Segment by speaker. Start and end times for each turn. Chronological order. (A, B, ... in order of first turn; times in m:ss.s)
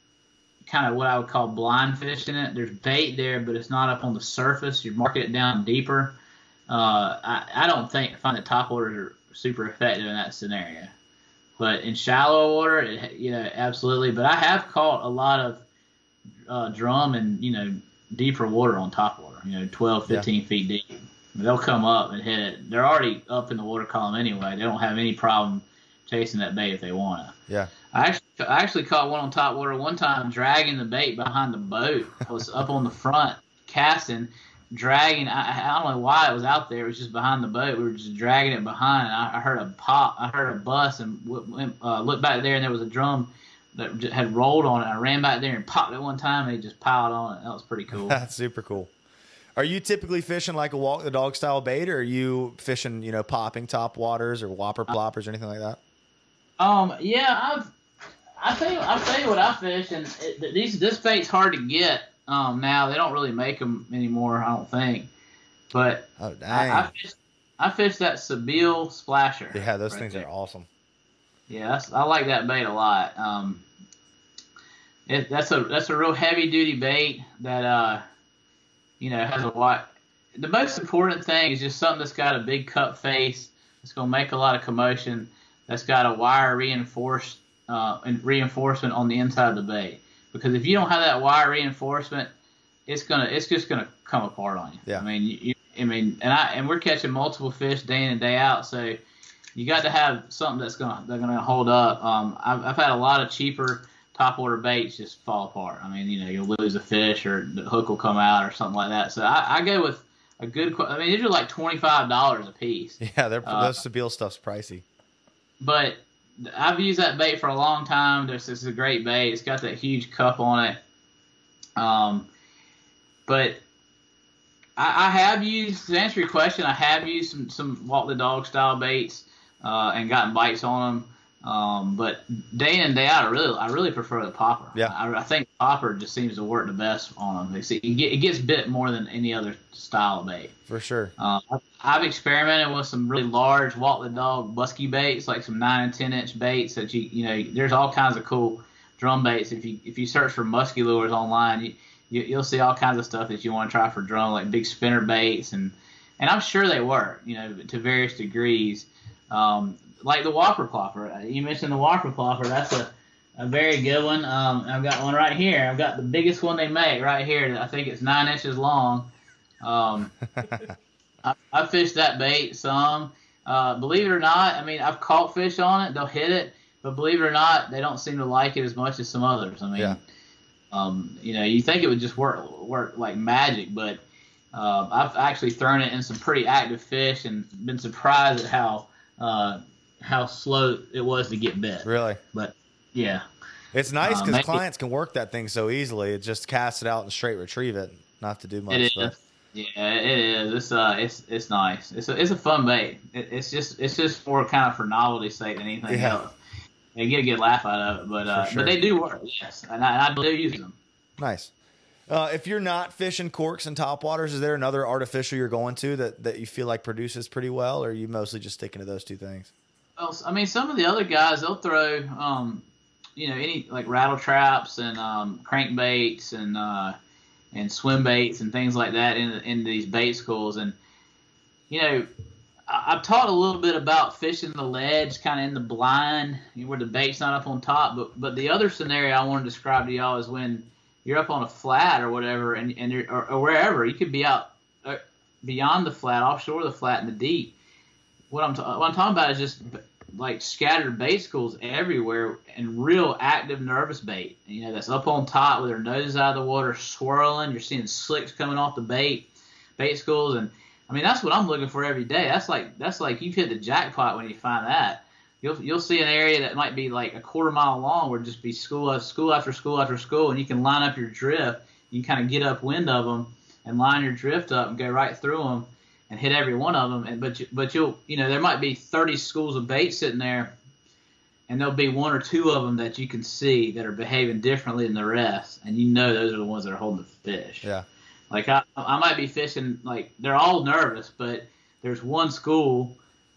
0:00.6-0:06.2 A
0:06.7-0:10.9 A
0:11.6-0:15.6 A
0:16.5-0:27.3 A
0:27.9-0:48.2 A
0:48.0-0:48.9 B
0:49.6-0:55.8 B
0:56.6-0:57.7 A
0:58.4-1:05.1 A
1:05.7-1:10.3 A
1:06.2-1:06.9 B
1:09.5-1:10.7 B
1:11.5-1:13.6 A
1:15.1-1:18.0 A
1:19.0-1:32.3 A
1:32.9-1:39.0 A
1:39.6-1:53.8 A
1:53.0-1:54.8 B
1:55.6-2:00.8 A
2:01.8-2:02.3 A
2:03.3-2:03.6 A
2:04.8-2:20.5 A
2:20.7-2:21.1 B
2:21.2-2:49.1 A
2:49.6-2:50.2 A
2:51.2-3:00.0 A
3:00.7-3:04.0 A
3:04.5-3:13.2 A
3:11.8-3:12.2 B
3:13.7-3:19.2 B
3:14.0-3:14.6 A
3:18.7-3:26.4 A
3:25.9-3:26.2 B
3:27.0-3:30.8 A
3:28.3-3:28.8 B
3:31.2-3:31.5 B
3:32.1-3:39.5 B
3:40.0-3:42.7 A
3:43.2-3:47.0 A
3:47.5-3:50.8 A
3:51.7-3:52.1 A
3:52.7-4:07.5 A
4:08.3-4:19.3 A
4:19.8-4:40.5 A
4:41.5-4:47.7 A
4:48.3-4:53.0 A